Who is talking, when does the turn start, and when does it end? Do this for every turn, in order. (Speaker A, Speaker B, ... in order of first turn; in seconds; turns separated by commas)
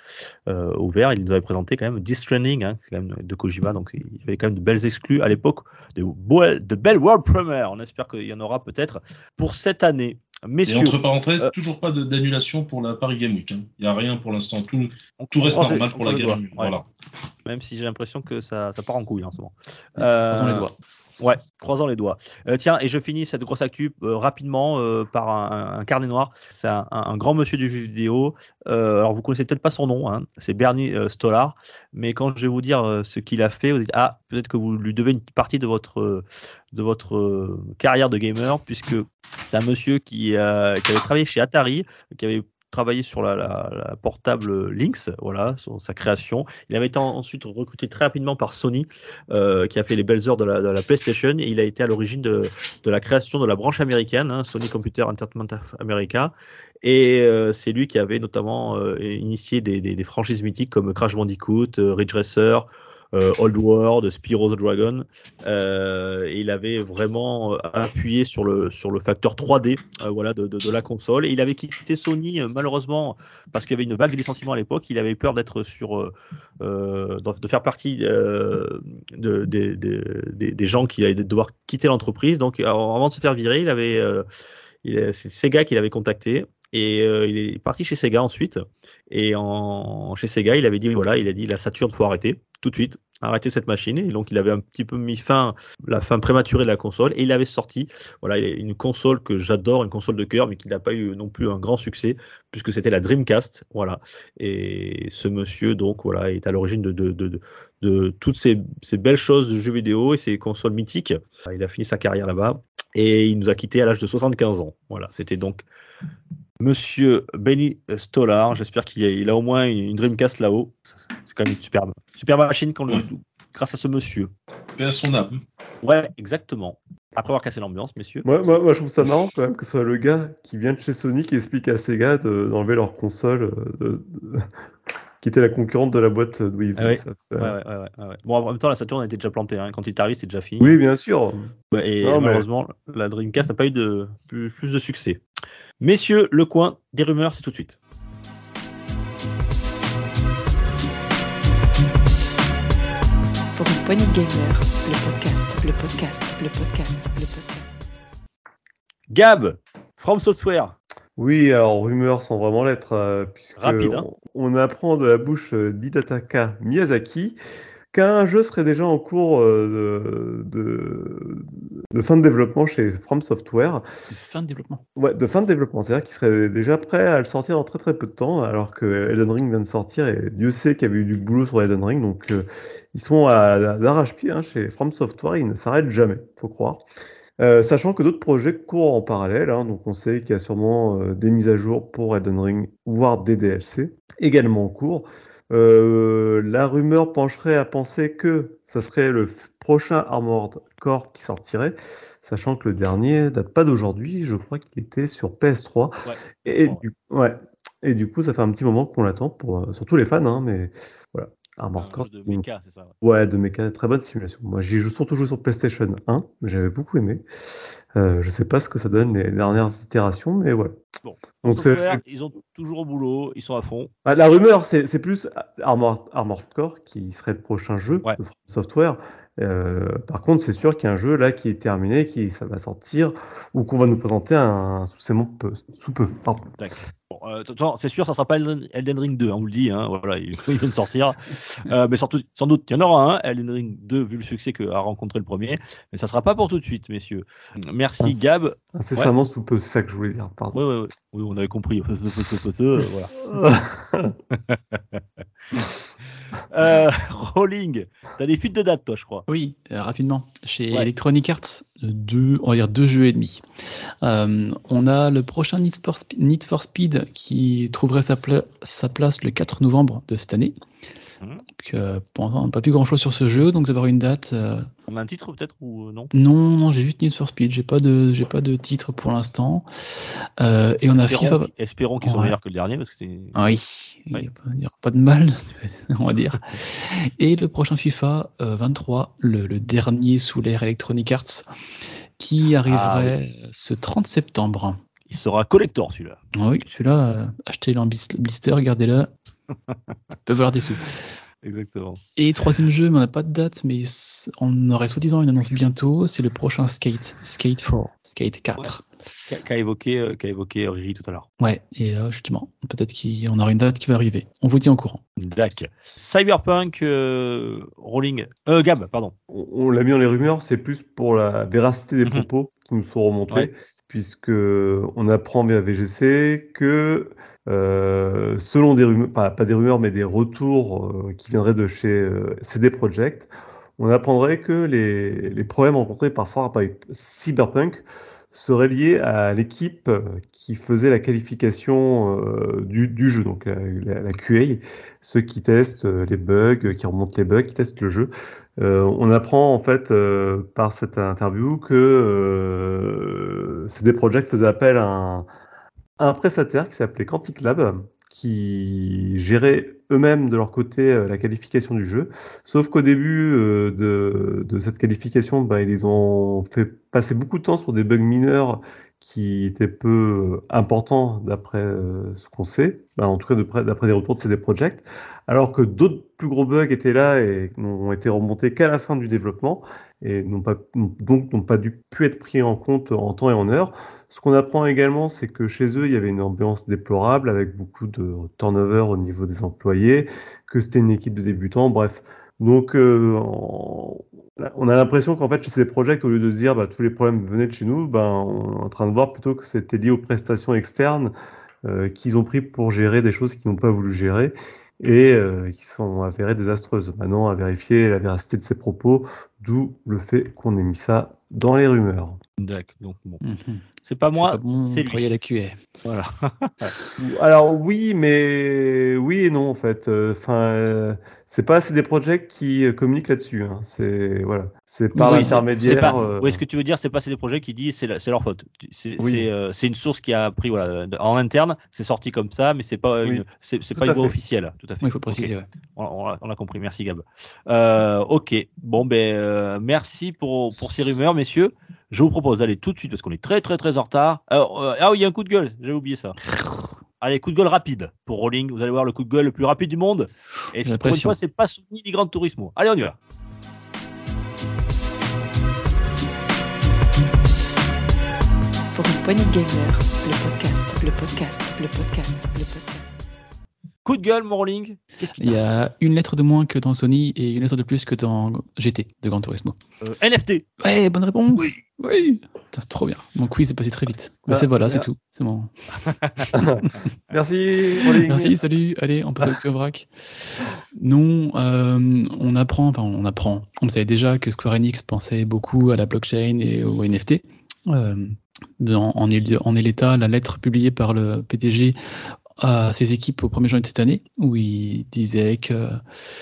Speaker A: 0.5-11.5, Speaker B: 10.7-16.9, Speaker A: 15.2-16.7, Speaker A: 17.4-20.6, Speaker C: 20.0-20.7, Speaker A: 21.2-84.2, Speaker A: 84.8-115.6, Speaker A: 116.6-124.3, Speaker B: 124.8-125.4, Speaker A: 125.8-128.3, Speaker D: 128.2-134.5, Speaker D: 135.2-137.6, Speaker A: 136.8-140.8, Speaker D: 140.6-142.4, Speaker A: 141.7-145.2, Speaker A: 145.8-147.8, Speaker E: 153.6-157.8, Speaker A: 159.1-160.8, Speaker D: 161.2-167.3, Speaker A: 163.6-164.1, Speaker D: 167.9-173.8, Speaker C: 174.1-174.8, Speaker D: 175.0-186.8, Speaker D: 187.4-212.4, Speaker A: 206.0-206.8, Speaker A: 211.8-212.9, Speaker D: 213.0-217.2, Speaker D: 217.9-220.8, Speaker A: 221.0-223.9, Speaker D: 221.4-222.0, Speaker D: 224.0-236.6, Speaker A: 236.6-249.1, Speaker D: 248.0-250.6, Speaker A: 250.5-253.1, Speaker D: 253.2-254.2, Speaker A: 254.3-255.7, Speaker A: 256.5-259.2, Speaker C: 259.3-263.4, Speaker C: 264.0-270.5, Speaker C: 271.6-274.7, Speaker A: 274.9-276.1, Speaker C: 276.1-279.7, Speaker C: 280.4-281.5, Speaker A: 280.9-283.4, Speaker C: 282.0-282.4, Speaker C: 283.3-291.4, Speaker C: 292.2-294.8, Speaker A: 292.6-293.1, Speaker A: 295.1-296.2, Speaker C: 296.3-299.1, Speaker A: 299.7-299.9, Speaker C: 300.1-300.9, Speaker A: 301.4-302.0, Speaker C: 302.1-308.8, Speaker A: 309.3-311.3, Speaker C: 311.4-315.0, Speaker A: 315.2-319.1, Speaker D: 319.3-355.3, Speaker D: 356.0-401.1, Speaker D: 401.6-412.2, Speaker A: 412.4-413.2, Speaker C: 413.2-415.6, Speaker A: 413.8-415.1, Speaker A: 415.8-416.7, Speaker D: 417.0-426.4, Speaker C: 424.9-426.0, Speaker A: 425.0-446.2, Speaker D: 429.0-429.3, Speaker D: 433.8-434.1, Speaker C: 434.8-435.5, Speaker C: 446.3-446.7, Speaker A: 447.0-452.9, Speaker C: 450.6-451.1, Speaker E: 458.7-463.0, Speaker A: 463.8-465.4, Speaker C: 465.2-469.6, Speaker A: 469.8-470.4, Speaker C: 470.6-475.5, Speaker D: 474.3-474.9, Speaker A: 475.9-476.2, Speaker D: 476.3-478.4, Speaker C: 478.1-479.9, Speaker C: 480.7-491.8, Speaker C: 492.4-495.8